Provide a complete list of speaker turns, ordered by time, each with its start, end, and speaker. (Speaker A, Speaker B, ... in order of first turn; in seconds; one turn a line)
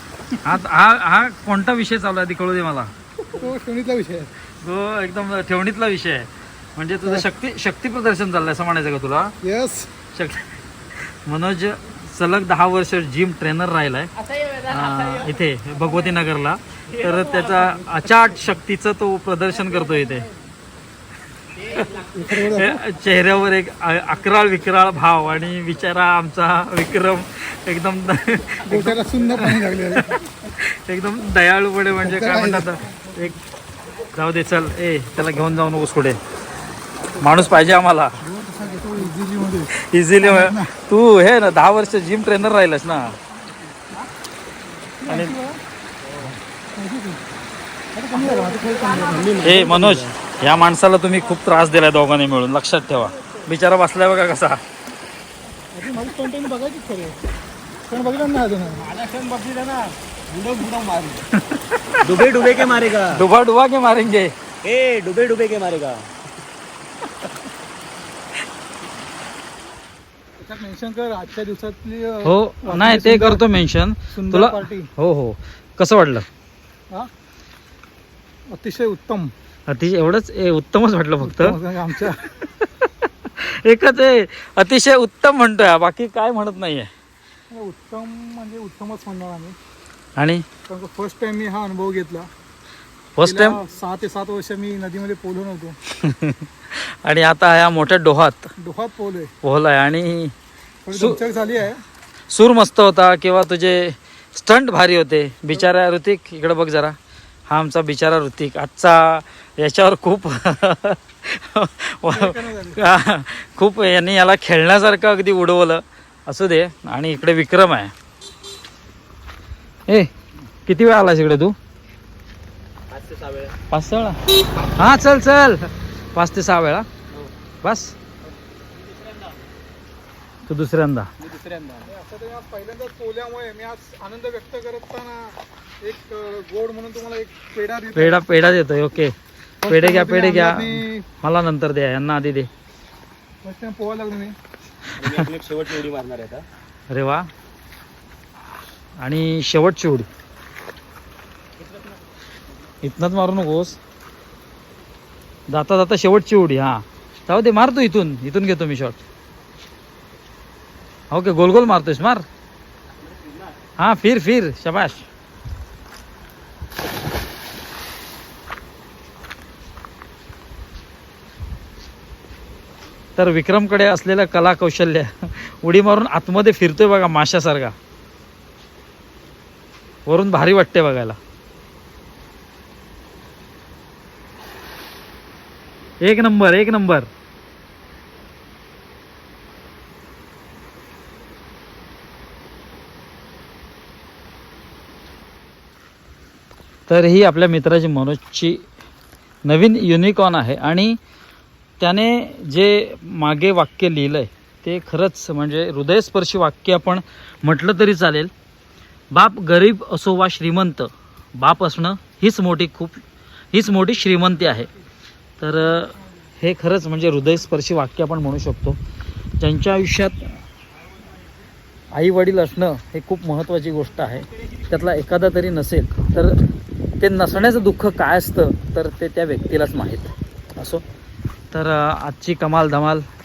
Speaker A: 0.4-2.9
Speaker B: 3.3-4.3
Speaker A: 4.6-9.3
Speaker B: 9.4-9.9
Speaker A: 10.1-20.3
Speaker A: 21.7-33.4
Speaker B: 22.0-22.8
Speaker B: 28.7-30.2
Speaker B: 32.0-32.7
Speaker A: 34.1-36.2
Speaker A: 37.1-38.2
Speaker B: 38.2-40.7
Speaker A: 39.7-43.2
Speaker B: 45.0-45.6
Speaker A: 45.1-45.4
Speaker B: 46.8-47.2
Speaker B: 48.0-49.4
Speaker C: 48.9-50.1
Speaker A: 49.4-54.6
Speaker B: 55.7-57.2
Speaker B: 57.9-58.9
Speaker C: 58.8-61.2
Speaker A: 61.3-62.1
Speaker C: 62.0-63.2
Speaker A: 63.1-64.3
Speaker C: 64.6-66.1
Speaker B: 70.4-73.4
Speaker A: 72.2-76.3
Speaker B: 74.1-74.9
Speaker B: 78.5-79.3
Speaker A: 79.7-86.9
Speaker B: 81.2-82.3
Speaker B: 87.5-89.6
Speaker A: 90.2-90.5
Speaker B: 90.7-92.3
Speaker A: 93.2-93.6
Speaker B: 93.2-95.8
Speaker A: 95.9-98.5
Speaker B: 98.6-99.3
Speaker A: 99.4-100.3
Speaker B: 100.9-101.8
Speaker A: 100.9-101.2
Speaker A: 102.3-107.0
Speaker A: 107.5-117.9
Speaker B: 112.1-112.8
Speaker A: 120.7-121.5
Speaker C: 122.9-123.5
Speaker A: 123.7-126.9
Speaker A: 127.6-128.0
Speaker A: 130.5-131.1
Speaker C: 131.2-131.8
Speaker B: 131.8-138.2
Speaker A: 138.0-142.5
Speaker B: 139.6-141.1
Speaker B: 143.4-144.4
Speaker C: 145.0-146.4
Speaker A: 146.9-147.3
Speaker A: 149.0-150.1
Speaker A: 152.8-153.8
Speaker A: 155.5-159.0
Speaker A: 161.1-162.2
Speaker A: 163.8-165.1
Speaker A: 173.2-177.8
Speaker A: 180.1-181.2
Speaker A: 186.0-187.1
Speaker A: 196.9-198.7
Speaker A: 199.5-201.0
Speaker A: 201.8-208.3
Speaker A: 209.1-213.0
Speaker A: 213.5-214.7
Speaker A: 215.4-218.8
Speaker A: 219.4-220.3
Speaker A: 221.9-226.4
Speaker A: 227.0-230.8
Speaker A: 231.5-233.1